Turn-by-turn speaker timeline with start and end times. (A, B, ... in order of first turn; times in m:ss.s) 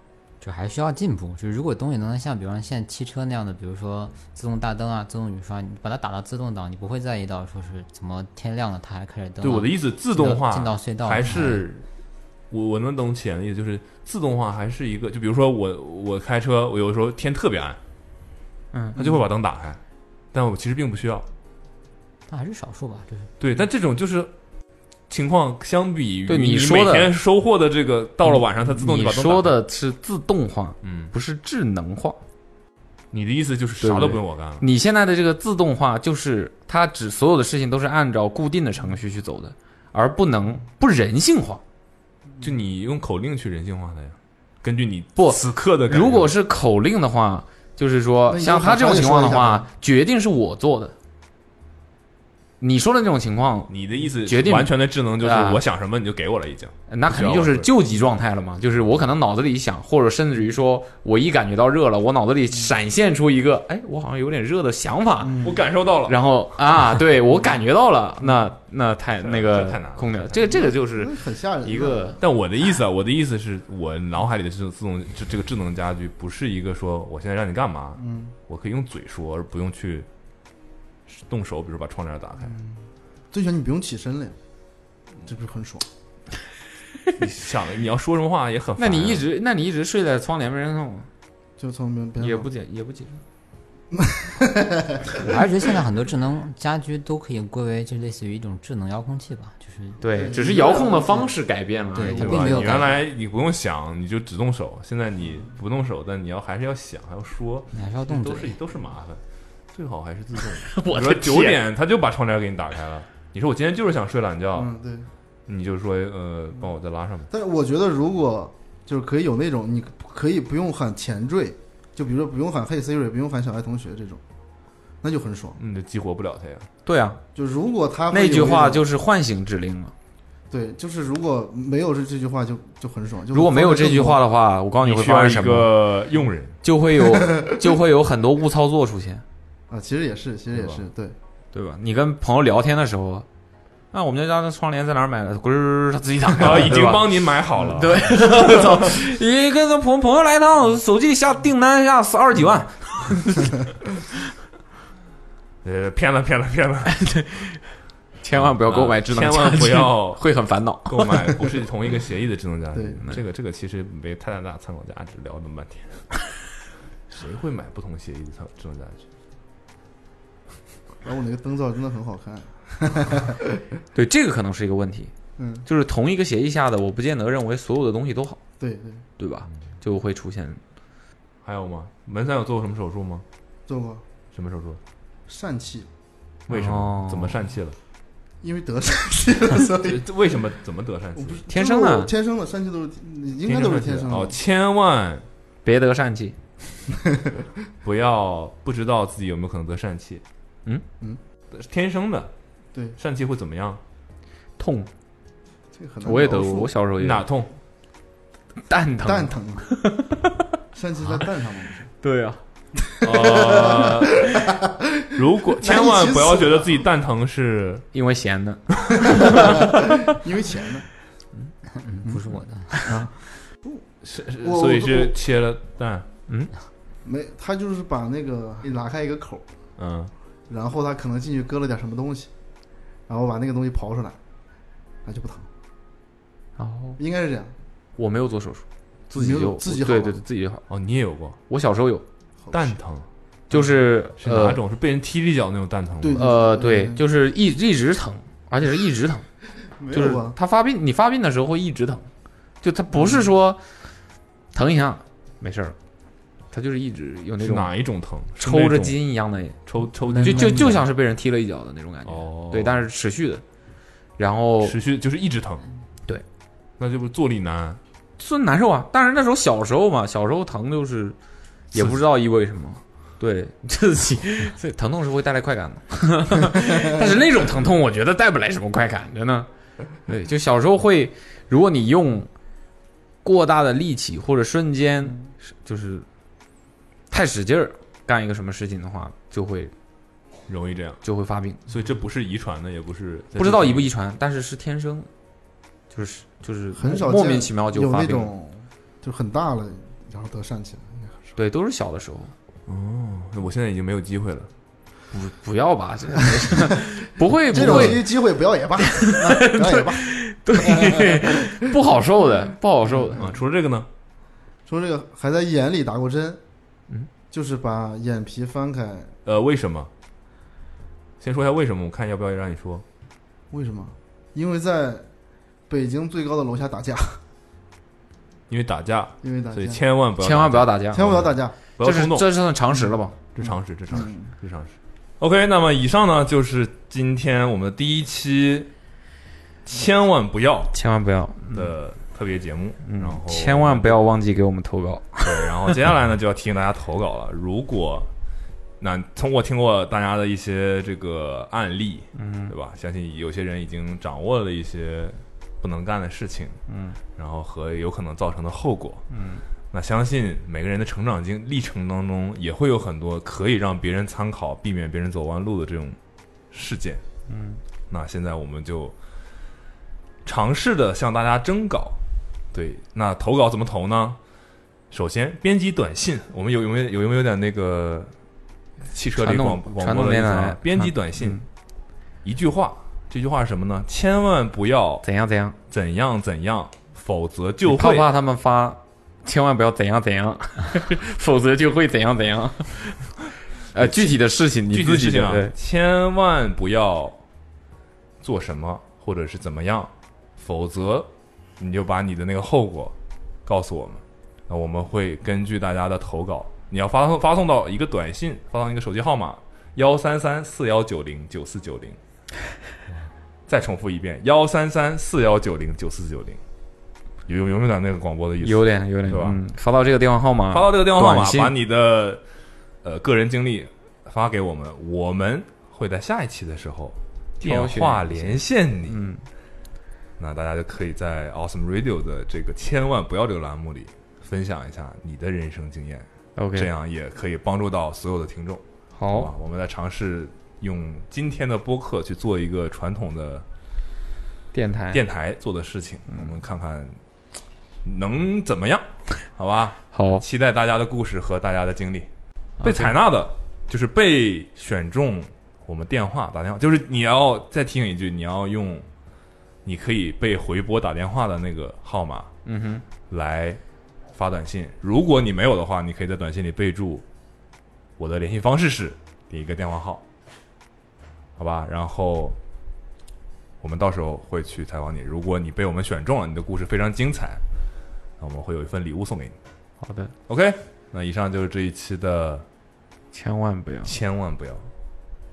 0:00.4-0:11.7 A
0:09.4-0:11.8 B
0:12.5-0:17.8 B
0:18.7-0:19.0 C
0:19.0-0:19.8 B
0:20.3-0:21.3 B
0:22.3-0:23.3 A
0:23.4-0:24.3 B
0:25.1-0:29.6 B
0:26.3-0:27.2 C
0:28.3-0:32.2 C
0:30.8-0:31.1 B
0:33.1-0:34.6 B
0:33.8-0:41.6 C
0:42.4-0:46.3 B
0:45.2-0:50.9 C
0:48.3-0:49.7 D
0:52.6-0:55.6 C
0:53.7-0:57.7 B
0:56.9-1:05.5 C
1:05.2-1:05.6 D
1:05.4-1:06.2 B
1:06.0-1:12.2 C
1:09.2-1:10.7 B
1:10.6-1:12.2 D
1:12.2-1:20.1 B
1:18.0-1:18.3 D
1:21.1-1:22.6 B
1:22.5-1:22.8 D
1:23.3-1:24.4 D
1:25.2-1:25.8 D
1:27.2-1:29.3 B
1:28.8-1:31.1 C
1:31.6-1:32.5 D
1:32.2-1:33.2 C
1:34.0-1:35.1 D
1:35.2-1:40.0 A
1:40.0-1:42.9 C
1:40.1-1:41.3 D
1:42.0-1:43.0 A
1:42.2-1:49.2 B
1:47.7-1:48.6 A
1:49.7-1:54.7 B
1:50.6-1:51.6 C
1:54.5-1:55.1 D
1:55.5-1:57.3 B
1:57.3-2:04.2 D
2:05.0-2:05.6 D
2:05.6-2:06.7 B
2:06.9-2:07.2 C
2:07.4-2:08.9 D
2:08.1-2:09.9 C
2:10.5-2:14.2 D
2:13.3-2:15.9 C
2:14.8-2:16.6 B
2:16.6-2:19.2 C
2:17.1-2:17.5 D
2:19.7-2:21.2 D
2:20.5-2:20.8 B
2:21.5-2:23.3 C
2:23.9-2:33.6 C
2:26.4-2:28.7 B
2:35.6-2:37.0 B
2:36.9-2:37.6 C
2:38.2-2:41.1 C
2:38.4-2:40.3 B
2:40.8-2:46.2 B
2:42.7-2:43.0 D
2:47.1-2:49.0 B
2:51.0-2:53.6 D
2:54.0-2:55.1 C
2:55.4-2:55.6 D
2:55.6-2:58.4 C
2:58.6-2:59.0 D
2:59.2-3:00.6 C
3:01.4-3:03.2 B
3:03.7-3:04.0 D
3:04.3-3:04.8 B
3:05.3-3:05.9 D
3:06.5-3:07.4 C
3:06.5-3:07.8 B
3:08.4-3:10.0 D
3:09.8-3:11.4 B
3:11.2-3:14.4 D
3:11.5-3:12.1 C
3:13.5-3:15.3 B
3:15.6-3:16.4 C
3:17.8-3:20.2 B
3:21.5-3:22.3 B
3:23.0-3:23.8 B
3:24.6-3:24.9 C
3:25.8-3:26.8 D
3:26.0-3:27.2 C
3:27.0-3:27.5 B
3:28.7-3:30.2 C
3:29.0-3:29.7 D
3:30.7-3:31.9 D
3:32.0-3:32.4 C
3:32.9-3:34.1 D
3:33.0-3:34.3 C
3:33.0-3:34.1 B
3:35.0-3:36.7 D
3:35.2-3:37.9 B
3:37.9-3:39.5 C
3:39.2-3:40.9 D
3:41.7-3:42.9 A
3:42.8-3:43.1 D
3:44.0-3:46.1 B
3:44.4-3:45.1 D
3:47.0-3:49.4 D
3:49.8-3:50.1 B
3:50.5-3:52.3 D
3:53.1-3:54.2 D
3:55.0-3:55.5 D
3:56.6-3:57.0 C
3:57.0-3:57.5 D
3:58.0-4:00.7 C
3:59.2-4:00.2 D
4:00.7-4:01.4 B
4:01.5-4:02.0 C
4:02.5-4:03.1 B
4:03.5-4:04.6 C
4:04.2-4:06.2 B
4:06.0-4:07.0 D
4:06.1-4:09.3 C
4:09.8-4:10.4 D
4:09.9-4:12.1 C
4:12.6-4:13.6 C
4:12.9-4:13.3 D
4:14.5-4:15.8 C
4:16.5-4:17.7 C
4:17.4-4:19.0 B
4:18.4-4:23.4 C
4:19.6-4:20.8 B
4:20.2-4:20.7 D
4:22.0-4:22.8 B
4:24.2-4:24.8 C
4:24.6-4:25.7 B
4:26.8-4:27.8 B
4:28.2-4:31.2 C
4:31.7-4:39.5 C
4:31.7-4:32.0 B
4:40.0-4:42.3 C
4:43.2-4:46.1 C
4:47.1-4:49.7 C
4:50.5-4:51.0 B
4:51.0-4:51.6 C
4:51.7-4:53.9 B
4:53.4-4:55.1 C
4:55.9-4:58.3 C
4:56.7-5:01.4 D
5:01.4-5:02.3 C
5:02.7-5:04.5 B
5:05.1-5:08.1 C
5:07.5-5:11.6 D
5:08.8-5:13.2 C
5:12.9-5:13.2 D
5:13.2-5:13.9 B
5:14.7-5:16.4 D
5:17.3-5:19.1 D
5:19.2-5:19.9 B
5:21.2-5:22.8 B
5:23.5-5:25.1 D
5:25.7-5:27.2 D
5:28.5-5:32.3 B
5:29.2-5:29.8 D
5:30.2-5:31.1 C
5:30.9-5:31.6 D
5:31.7-5:33.2 C
5:33.4-5:38.7 B
5:33.9-5:34.3 D
5:39.7-5:40.7 B
5:40.7-5:41.7 C
5:41.4-5:44.0 B
5:42.8-5:45.5 C
5:45.2-5:48.1 B
5:48.8-5:56.6 B
5:52.2-5:52.5 C
5:56.7-5:57.0 C
5:57.1-5:59.1 B
5:59.1-5:59.4 C
5:59.7-6:06.0 B
6:06.5-6:07.0 B
6:07.3-6:07.6 C
6:07.9-6:09.0 B
6:10.2-6:12.0 B
6:12.5-6:14.2 B
6:14.9-6:18.1 B
6:18.9-6:21.4 B
6:19.2-6:21.4 C
6:22.2-6:25.0 B
6:25.0-6:25.6 C
6:25.7-6:28.1 B
6:27.7-6:33.1 C
6:33.7-6:35.5 C
6:33.8-6:34.2 B
6:34.7-6:37.2 B
6:38.2-6:43.0 B
6:43.5-6:52.0 B
6:53.5-6:56.4 B
6:57.3-6:59.4 B
6:58.4-7:01.5 C
7:00.5-7:02.2 B
7:02.8-7:09.0 B
7:07.4-7:09.2 C
7:10.2-7:23.4 B
7:16.4-7:16.7 C
7:19.0-7:19.3 C
7:24.5-7:25.0 C
7:24.9-7:27.0 B
7:27.8-7:32.1 B
7:29.9-7:30.2 C
7:32.6-7:32.9 C
7:32.6-7:38.9 B
7:39.6-7:42.3 B
7:42.4-7:42.8 C
7:43.1-7:43.6 B
7:44.1-7:47.0 B
7:48.0-7:50.0 B
7:51.4-7:52.4 B
7:53.6-7:57.4 B
7:58.2-7:59.4 B
7:59.8-8:00.1 C
8:00.3-8:02.5 B
8:03.1-8:03.9 C
8:03.8-8:04.7 B